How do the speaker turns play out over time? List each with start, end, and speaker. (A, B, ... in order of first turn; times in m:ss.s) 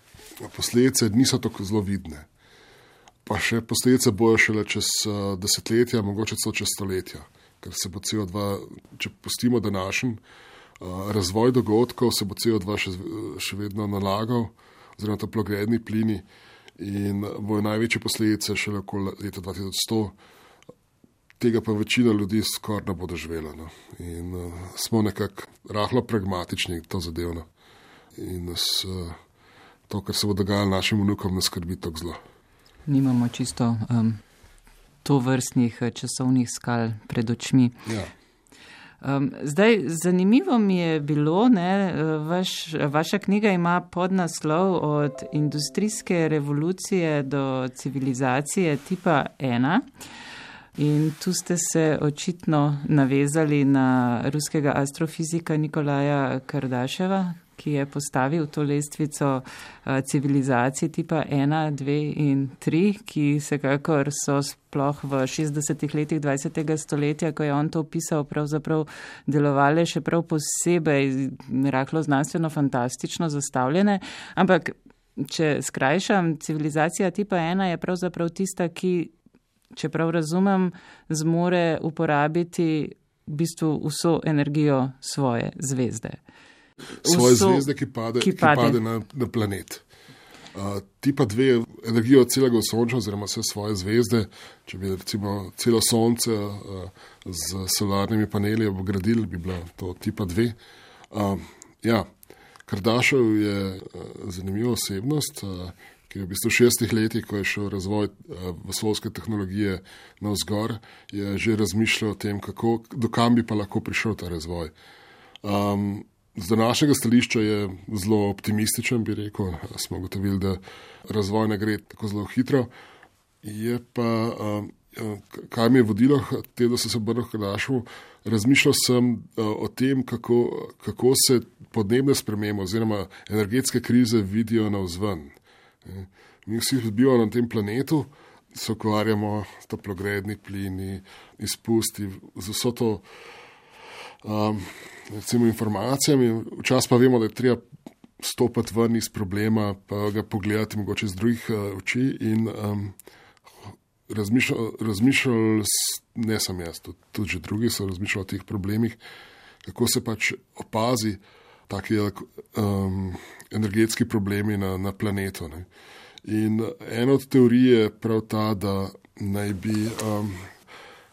0:00.4-0:02.3 A
0:03.2-0:10.2 A
0:10.8-0:16.2 A
0:16.8-0:20.1 A
0:21.4-0:27.5 A
0:28.1-0:29.2 A
0:29.9-0:32.2 A
0:32.9-0:34.2 B
0:35.0-0:37.8 B
0:37.8-0:38.1 A
0:39.0-0:49.8 B
0:50.8-1:19.1 B
1:19.7-1:26.2 B
1:27.0-1:27.7 B
1:27.0-1:29.8 A
1:28.2-1:28.8 B
1:30.5-1:40.6 A
1:41.1-1:42.1 A
1:42.6-1:54.7 A
1:55.4-2:02.7 A
2:03.4-2:23.0 A
2:24.2-2:27.6 A
2:28.2-2:33.0 A
2:34.1-2:39.0 A
2:39.6-2:45.7 A
2:46.2-2:50.5 A